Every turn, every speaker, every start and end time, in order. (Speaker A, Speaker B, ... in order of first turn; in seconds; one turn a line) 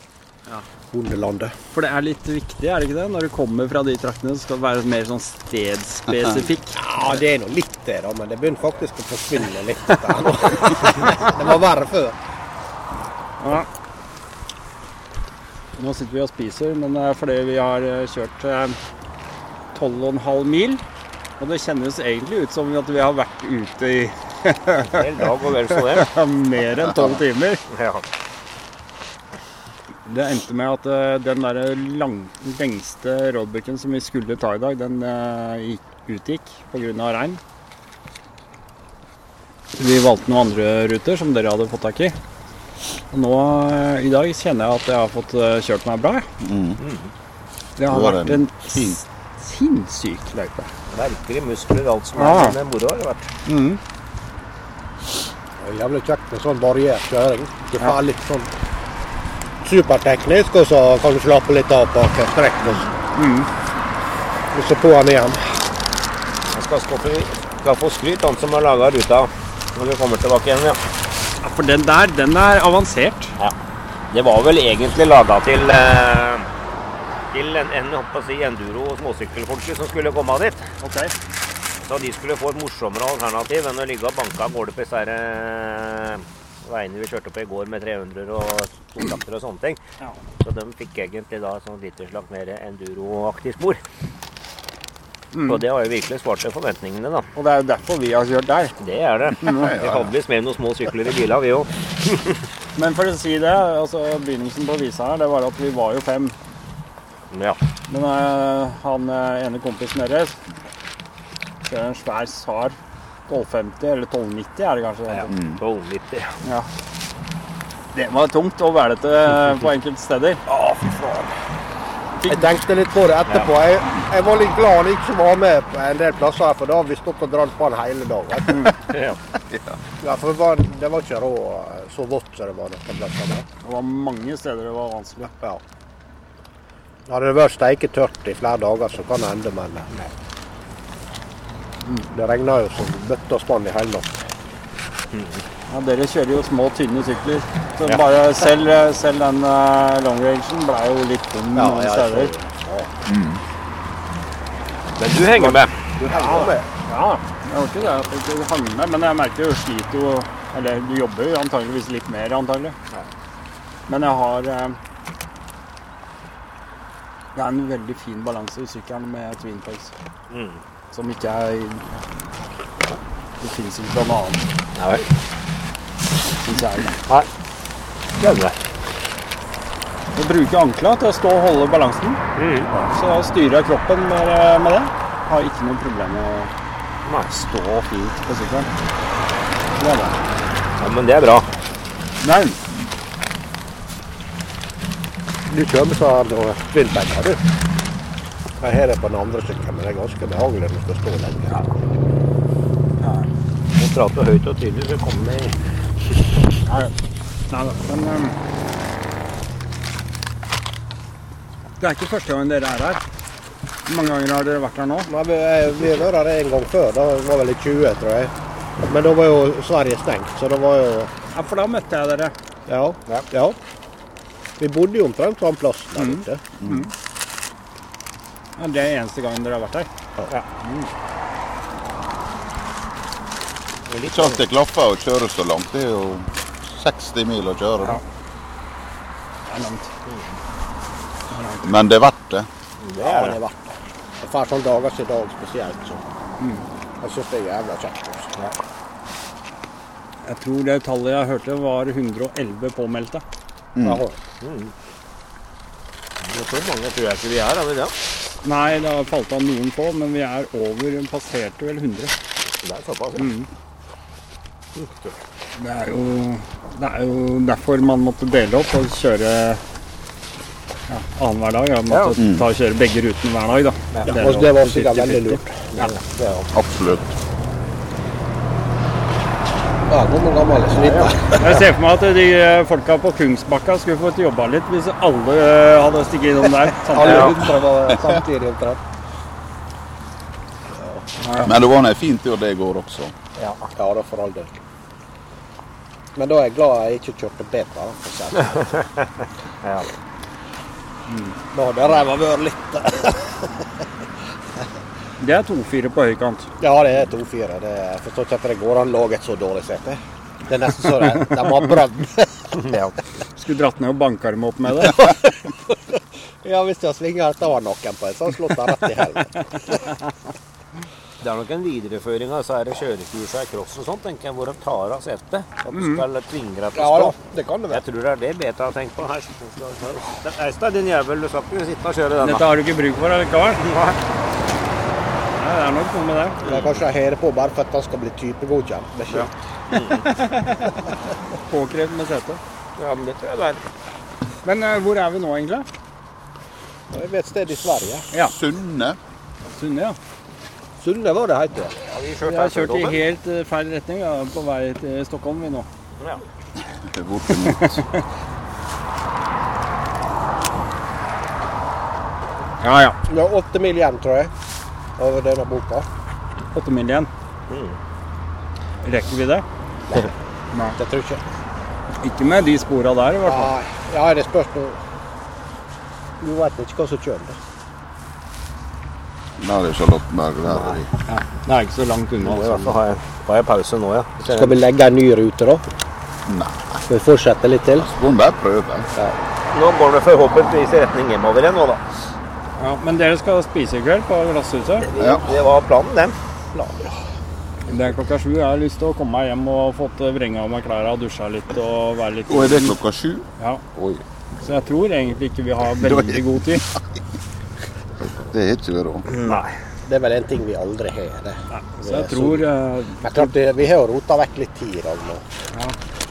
Speaker A: 0.9-1.6
Speaker B: 1.7-6.8
Speaker A: 6.8-12.2
Speaker B: 13.4-13.7
Speaker B: 15.8-18.8
Speaker B: 19.7-20.8
Speaker B: 21.4-25.2
Speaker B: 25.8-27.6
Speaker B: 30.1-37.4
Speaker B: 39.8-42.2
Speaker B: 43.1-46.3
Speaker C: 46.4-46.8
Speaker B: 47.8-50.7
Speaker C: 47.8-49.0
Speaker D: 51.1-53.2
Speaker B: 52.1-52.6
Speaker B: 53.5-53.8
Speaker A: 55.6-58.5
Speaker A: 59.6-62.9
Speaker B: 63.1-63.5
Speaker A: 64.5-65.6
Speaker D: 66.6-70.8
Speaker B: 71.4-73.3
Speaker D: 74.1-76.3
Speaker D: 77.3-80.6
Speaker B: 80.8-81.1
Speaker D: 81.9-86.2
Speaker D: 86.7-89.8
Speaker D: 90.4-93.8
Speaker B: 95.3-95.6
Speaker D: 95.5-97.2
Speaker B: 97.3-98.8
Speaker D: 98.8-101.7
Speaker C: 99.5-100.1
Speaker B: 102.8-106.3
Speaker D: 107.3-107.6
Speaker B: 107.9-110.4
Speaker B: 111.6-112.8
Speaker B: 113.3-115.3
Speaker C: 115.3-115.6
Speaker D: 115.6-116.2
Speaker B: 117.9-120.4
Speaker A: 122.2-128.7
Speaker C: 129.5-129.8
Speaker A: 130.0-133.5
Speaker B: 133.6-135.3
Speaker A: 137.1-140.1
Speaker A: 142.1-144.2
Speaker B: 145.7-152.3
Speaker A: 151.6-152.9
Speaker C: 153.1-153.4
Speaker D: 155.1-155.7
Speaker A: 156.0-156.7
Speaker B: 156.1-162.8
Speaker B: 163.9-164.8
Speaker B: 167.3-169.9
Speaker D: 170.3-170.6
Speaker B: 170.9-172.0
Speaker B: 173.4-174.4
Speaker D: 174.8-175.0
Speaker B: 176.4-177.0
Speaker D: 178.2-178.5
Speaker B: 180.2-182.2
Speaker D: 182.4-182.7
Speaker B: 182.7-186.5
Speaker B: 187.4-188.7
Speaker B: 189.8-190.1
Speaker D: 190.8-191.4
Speaker B: 192.2-192.6
Speaker A: 195.5-197.4
Speaker A: 198.6-201.6
Speaker B: 203.0-203.3
Speaker B: 206.7-206.9
Speaker B: 207.5-208.4
Speaker B: 211.8-213.0
Speaker B: 213.9-215.1
Speaker A: 215.1-221.1
Speaker B: 221.3-222.3
Speaker A: 222.7-223.6
Speaker A: 224.6-226.4
Speaker B: 226.0-226.9
Speaker C: 226.6-226.9
Speaker B: 228.6-230.5
Speaker C: 234.1-238.0
Speaker B: 239.5-239.9
Speaker B: 241.3-241.7
Speaker C: 241.6-242.5
Speaker A: 243.0-243.6
Speaker A: 244.2-246.0
Speaker A: 247.0-248.4
Speaker B: 250.2-253.2
Speaker C: 253.8-254.0
Speaker A: 253.8-254.2
Speaker D: 256.4-257.9
Speaker B: 258.4-262.1
Speaker D: 262.7-263.2
Speaker B: 263.2-263.5
Speaker B: 265.6-269.6
Speaker B: 270.9-275.5
Speaker C: 272.2-272.5
Speaker A: 274.0-276.5
Speaker C: 276.5-277.1
Speaker A: 279.9-281.6
Speaker B: 281.3-287.6
Speaker A: 286.9-288.8
Speaker B: 291.2-291.5
Speaker C: 291.4-293.1
Speaker A: 293.8-294.6
Speaker A: 296.2-298.6
Speaker A: 301.5-303.4
Speaker B: 305.2-306.5
Speaker A: 306.6-312.6
Speaker B: 312.7-315.1
Speaker A: 316.4-319.8
Speaker D: 321.2-327.1
Speaker B: 325.7-326.0
Speaker A: 326.7-327.8
Speaker D: 327.7-329.4
Speaker D: 330.1-332.4
Speaker B: 332.2-333.7
Speaker B: 335.4-336.4
Speaker A: 336.4-339.3
Speaker B: 341.5-342.4
Speaker B: 344.4-345.7
Speaker A: 346.9-348.1
Speaker C: 348.2-349.0
Speaker B: 349.6-350.0
Speaker A: 350.8-351.8
Speaker D: 352.2-352.9
Speaker B: 352.3-355.7
Speaker C: 356.8-357.9
Speaker B: 357.5-357.8
Speaker B: 362.6-363.0
Speaker A: 363.1-364.3
Speaker A: 365.0-365.9
Speaker B: 366.5-367.1
Speaker B: 368.8-369.4
Speaker A: 370.8-371.2
Speaker B: 372.0-373.5
Speaker A: 373.2-374.8
Speaker A: 376.2-377.4
Speaker C: 379.4-380.9
Speaker B: 381.1-382.8
Speaker D: 382.2-384.5
Speaker A: 384.3-385.6
Speaker C: 386.3-386.8
Speaker A: 386.9-387.9
Speaker C: 387.8-388.9
Speaker D: 389.6-391.8
Speaker B: 392.6-394.9
Speaker C: 395.0-395.3
Speaker D: 395.0-396.1
Speaker A: 396.5-396.9
Speaker B: 397.7-402.8
Speaker C: 402.3-404.0
Speaker B: 404.4-406.7
Speaker C: 405.8-406.6
Speaker C: 408.3-409.1
Speaker A: 409.9-412.5
Speaker B: 411.5-413.3
Speaker A: 413.0-415.2